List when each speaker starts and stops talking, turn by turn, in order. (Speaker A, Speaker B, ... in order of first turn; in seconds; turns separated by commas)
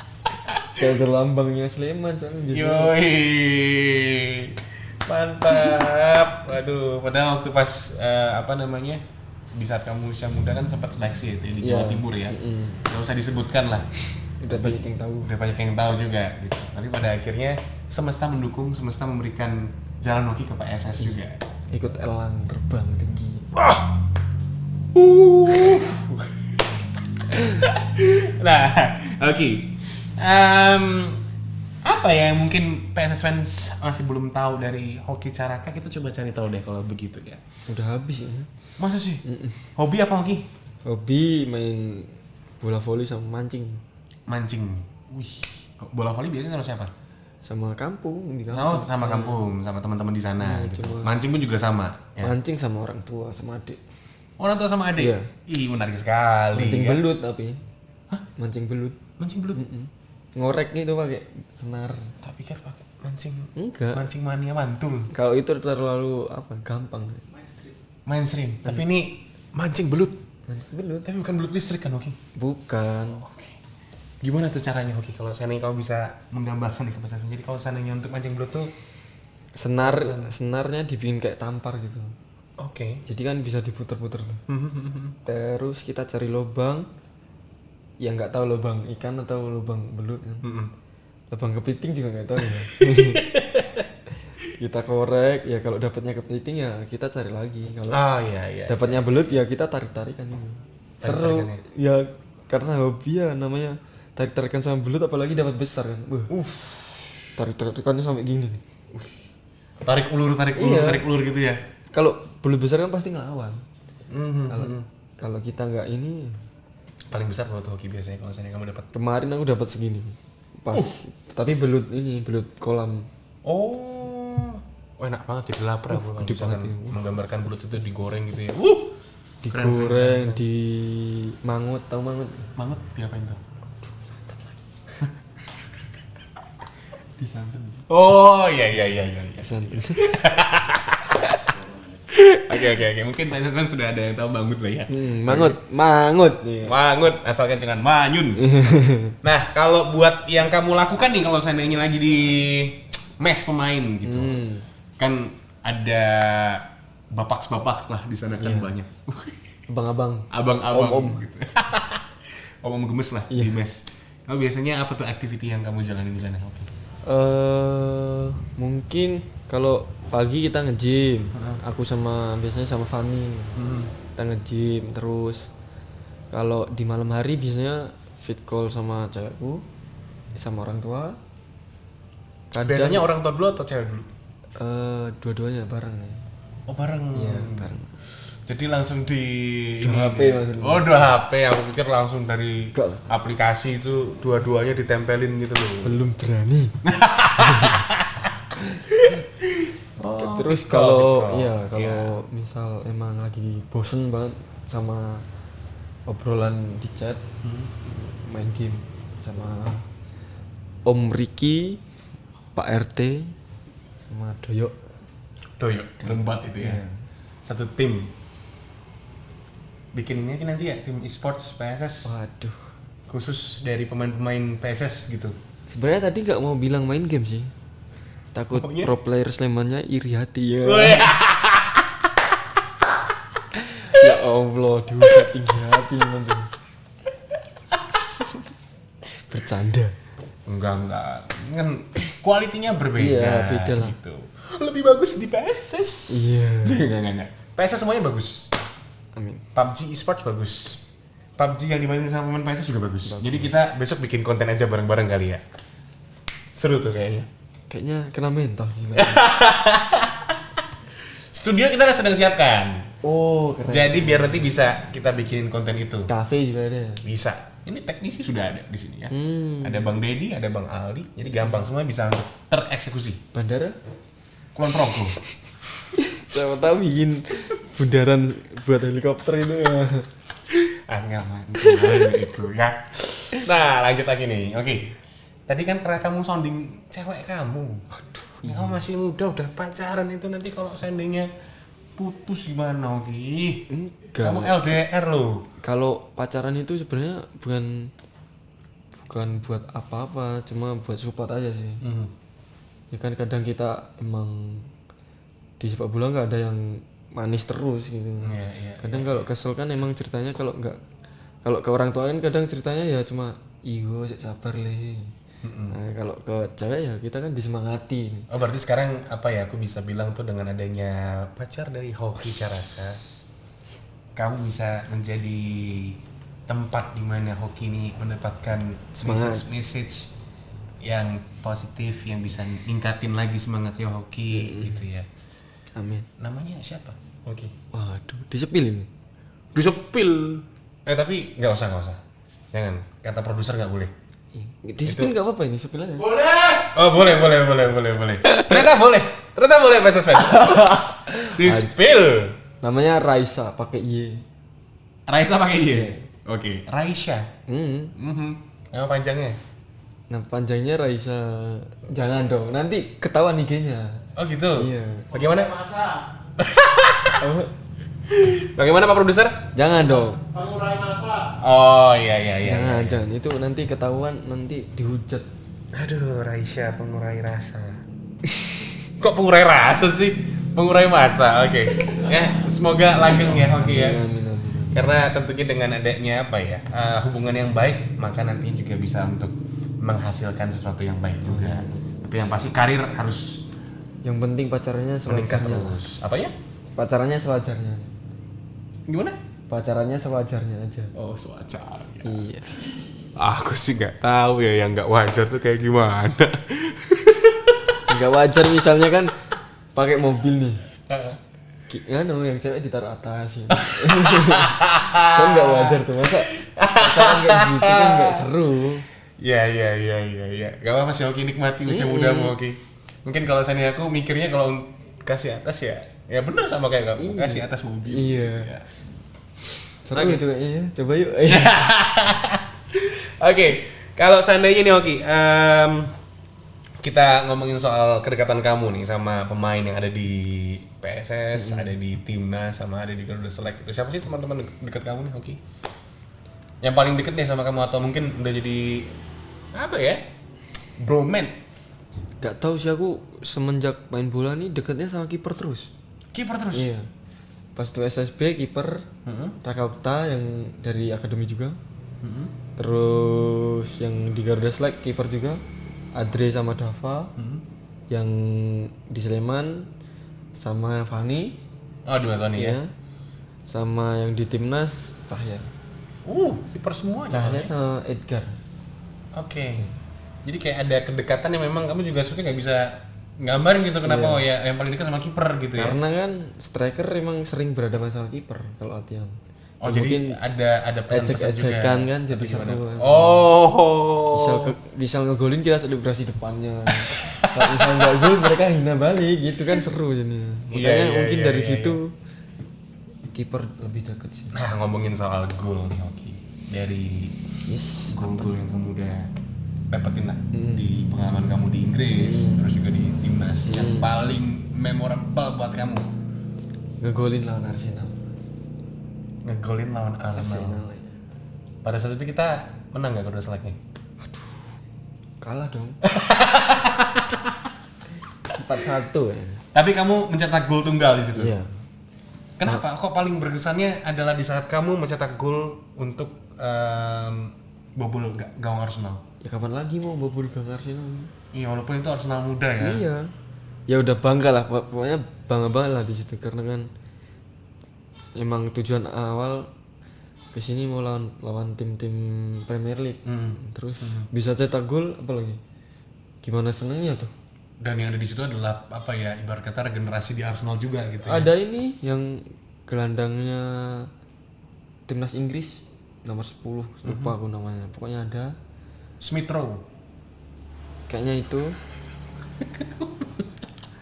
Speaker A: 0.4-0.8, Speaker B: 0.7-2.9, Speaker A: 2.5-9.0, Speaker A: 9.5-13.9, Speaker B: 11.6-12.8, Speaker B: 14.4-15.3, Speaker A: 14.5-21.4, Speaker B: 21.7-23.5, Speaker A: 23.5-24.0, Speaker A: 24.9-26.6, Speaker A: 27.2-31.2, Speaker A: 31.8-37.4, Speaker B: 37.7-38.5, Speaker A: 38.8-40.5, Speaker B: 39.2-39.6, Speaker B: 40.9-43.8, Speaker A: 44.3-46.9, Speaker B: 47.4-49.5, Speaker A: 48.5-52.4, Speaker B: 50.4-51.1, Speaker B: 52.2-53.8, Speaker A: 54.4-57.0, Speaker B: 55.0-55.3, Speaker B: 56.5-57.6, Speaker B: 58.4-59.0, Speaker A: 59.2-59.6, Speaker B: 59.5-62.2, Speaker A: 62.2-65.1, Speaker B: 63.5-64.1, Speaker B: 65.1-67.3, Speaker A: 68.0-70.2, Speaker B: 70.5-71.1, Speaker A: 71.0-72.2, Speaker B: 72.3-73.2, Speaker A: 73.1-73.6, Speaker A: 74.2-78.7, Speaker B: 79.6-82.1, Speaker A: 79.8-80.3, Speaker A: 82.6-83.0, Speaker B: 83.0-84.4, Speaker A: 84.5-85.2, Speaker B: 85.2-86.9, Speaker B: 88.0-90.5, Speaker A: 90.4-90.7, Speaker B: 91.3-93.2, Speaker A: 92.4-93.8, Speaker B: 94.5-98.0, Speaker A: 97.9-99.1, Speaker B: 98.7-106.3, Speaker A: 101.0-101.6, Speaker A: 106.3-107.3, Speaker B: 107.4-108.6, Speaker A: 108.9-109.2, Speaker A: 109.8-111.6, Speaker B: 110.5-111.0, Speaker B: 111.9-113.6, Speaker A: 114.1-114.8, Speaker B: 114.5-116.4, Speaker A: 117.1-118.8, Speaker B: 118.9-123.1, Speaker A: 123.4-128.9, Speaker B: 125.9-127.0, Speaker B: 129.4-132.5, Speaker A: 129.5-130.4, Speaker A: 132.6-133.4, Speaker B: 134.0-134.6, Speaker B: 137.2-137.8, Speaker A: 137.9-141.4, Speaker B: 139.4-140.0, Speaker A: 142.1-145.6, Speaker B: 144.9-146.8, Speaker A: 146.6-148.4, Speaker B: 148.4-149.1, Speaker A: 149.2-154.4, Speaker B: 154.0-154.7, Speaker A: 155.0-159.5, Speaker B: 158.3-158.7, Speaker B: 159.7-161.2, Speaker A: 160.3-166.7, Speaker B: 163.3-163.6, Speaker B: 167.1-173.6, Speaker A: 173.6-173.9, Speaker B: 174.1-175.5, Speaker B: 176.3-179.6, Speaker B: 180.3-181.2, Speaker B: 182.5-183.1, Speaker A: 182.6-184.1, Speaker B: 184.6-186.2, Speaker A: 186.7-187.7, Speaker B: 187.1-188.0, Speaker A: 188.3-196.0, Speaker B: 189.8-191.0, Speaker B: 192.7-193.0, Speaker B: 195.8-196.8, Speaker A: 196.8-198.3, Speaker B: 197.4-197.9, Speaker A: 198.9-202.2, Speaker B: 200.0-205.2, Speaker B: 206.1-207.2, Speaker A: 207.4-207.7, Speaker B: 207.8-209.9, Speaker B: 210.8-211.8, Speaker B: 212.5-213.3, Speaker B: 214.1-214.8, Speaker A: 215.6-216.8, Speaker B: 216.0-217.0, Speaker A: 217.4-218.1, Speaker A: 219.9-222.1, Speaker B: 222.0-222.7, Speaker A: 223.1-225.3, Speaker B: 225.7-227.5, Speaker B: 228.3-231.1, Speaker A: 228.5-228.9, Speaker A: 230.6-232.6, Speaker A: 233.8-234.2, Speaker B: 233.8-236.5, Speaker A: 237.3-238.3, Speaker B: 239.1-239.9, Speaker A: 240.4-248.5, Speaker B: 243.0-243.9, Speaker B: 246.1-246.9, Speaker B: 249.2-249.4, Speaker A: 249.5-250.8, Speaker A: 251.4-255.4, Speaker B: 253.0-253.7, Speaker A: 256.5-257.3, Speaker B: 257.7-259.2, Speaker A: 258.9-262.9, Speaker B: 263.0-264.5, Speaker A: 263.7-266.1, Speaker B: 266.1-267.1, Speaker A: 267.0-273.2, Speaker B: 269.1-269.9, Speaker B: 273.3-273.8, Speaker A: 274.5-275.2, Speaker B: 275.9-280.1, Speaker A: 280.5-284.9, Speaker B: 281.6-282.2, Speaker A: 285.5-287.9, Speaker B: 287.9-288.8, Speaker A: 288.4-291.3, Speaker A: 291.9-293.7, Speaker B: 293.7-294.7, Speaker A: 294.2-295.4, Speaker B: 295.6-297.9, Speaker B: 299.0-301.8, Speaker A: 301.8-302.1, Speaker B: 302.9-304.7, Speaker B: 305.6-310.8, Speaker A: 308.2-309.3, Speaker B: 311.4-315.1, Speaker A: 315.4-315.8, Speaker B: 315.7-318.3, Speaker A: 318.3-323.0, Speaker A: 324.1-330.1, Speaker B: 328.9-329.5, Speaker A: 330.8-335.1, Speaker B: 334.3-334.8, Speaker B: 335.8-336.1, Speaker A: 336.2-337.5, Speaker B: 337.7-338.9, Speaker A: 339.5-342.0, Speaker A: 342.5-343.9, Speaker B: 344.3-346.2, Speaker A: 344.8-345.1, Speaker A: 346.1-352.4, Speaker B: 348.2-348.7, Speaker B: 350.2-351.7, Speaker B: 352.6-354.2, Speaker A: 355.1-357.3, Speaker B: 355.7-356.1, Speaker B: 357.5-357.9, Speaker A: 357.9-359.4, Speaker B: 360.1-364.0, Speaker A: 364.1-367.3, Speaker B: 364.5-365.1, Speaker B: 367.2-367.5, Speaker A: 368.1-369.4, Speaker B: 369.5-370.2, Speaker A: 370.3-373.0, Speaker B: 372.4-375.3, Speaker A: 375.7-377.8, Speaker B: 378.3-378.7, Speaker A: 379.0-384.0, Speaker B: 383.5-384.8, Speaker A: 384.7-393.4, Speaker B: 391.2-391.8, Speaker B: 394.0-395.8, Speaker A: 395.1-396.3, Speaker B: 396.8-397.9, Speaker A: 398.9-399.2, Speaker B: 399.5-400.9, Speaker A: 400.9-402.2, Speaker B: 402.0-402.6, Speaker A: 403.1-407.8, Speaker B: 407.9-409.2, Speaker B: 409.7-410.6, Speaker A: 410.9-411.2, Speaker B: 411.7-418.9, Speaker A: 413.5-418.3, Speaker A: 419.2-428.8, Speaker B: 421.7-422.4, Speaker B: 427.0-428.5, Speaker B: 429.9-431.6, Speaker A: 429.9-430.2, Speaker A: 431.2-435.9, Speaker A: 436.8-445.4, Speaker B: 441.3-441.7, Speaker A: 446.6-448.9, Speaker A: 449.5-450.0, Speaker A: 450.8-451.4, Speaker B: 452.2-455.7, Speaker A: 456.1-456.7, Speaker B: 456.5-456.9, Speaker B: 457.6-458.9, Speaker A: 459.0-459.4, Speaker B: 459.4-461.6, Speaker A: 462.0-462.3, Speaker B: 462.6-465.4, Speaker B: 465.9-467.1, Speaker A: 467.2-467.4, Speaker B: 467.9-469.7, Speaker B: 470.3-471.4, Speaker A: 471.9-472.6, Speaker B: 472.3-472.7, Speaker B: 473.5-475.5, Speaker A: 476.1-477.5, Speaker B: 477.1-478.4, Speaker A: 479.1-479.7, Speaker A: 480.2-485.8, Speaker B: 483.8-484.2, Speaker B: 485.6-490.2, Speaker A: 489.6-494.6, Speaker B: 490.9-493.2, Speaker B: 494.1-501.9, Speaker A: 496.8-498.3, Speaker A: 500.5-501.8, Speaker B: 503.1-504.4, Speaker A: 504.3-507.1, Speaker B: 507.5-508.3, Speaker A: 507.9-509.1, Speaker A: 509.7-515.9, Speaker B: 510.3-510.7, Speaker B: 511.9-512.4, Speaker B: 513.4-513.9, Speaker B: 516.8-518.0, Speaker A: 519.2-520.6, Speaker B: 520.1-521.0, Speaker A: 521.6-523.6, Speaker B: 524.1-524.4, Speaker B: 525.2-525.8, Speaker A: 525.8-527.4, Speaker B: 528.3-529.4, Speaker A: 529.5-531.3, Speaker B: 531.1-531.6, Speaker A: 532.4-539.0, Speaker B: 539.2-541.1, Speaker A: 541.3-542.9, Speaker B: 542.6-543.1, Speaker B: 543.7-546.7, Speaker B: 548.1-549.5, Speaker B: 550.3-555.4, Speaker A: 553.0-554.1, Speaker B: 556.2-557.1, Speaker A: 557.6-561.3, Speaker B: 561.0-563.9, Speaker B: 564.9-568.4, Speaker A: 566.8-567.1, Speaker A: 569.0-569.6, Speaker B: 570.9-571.6, Speaker A: 572.4-573.3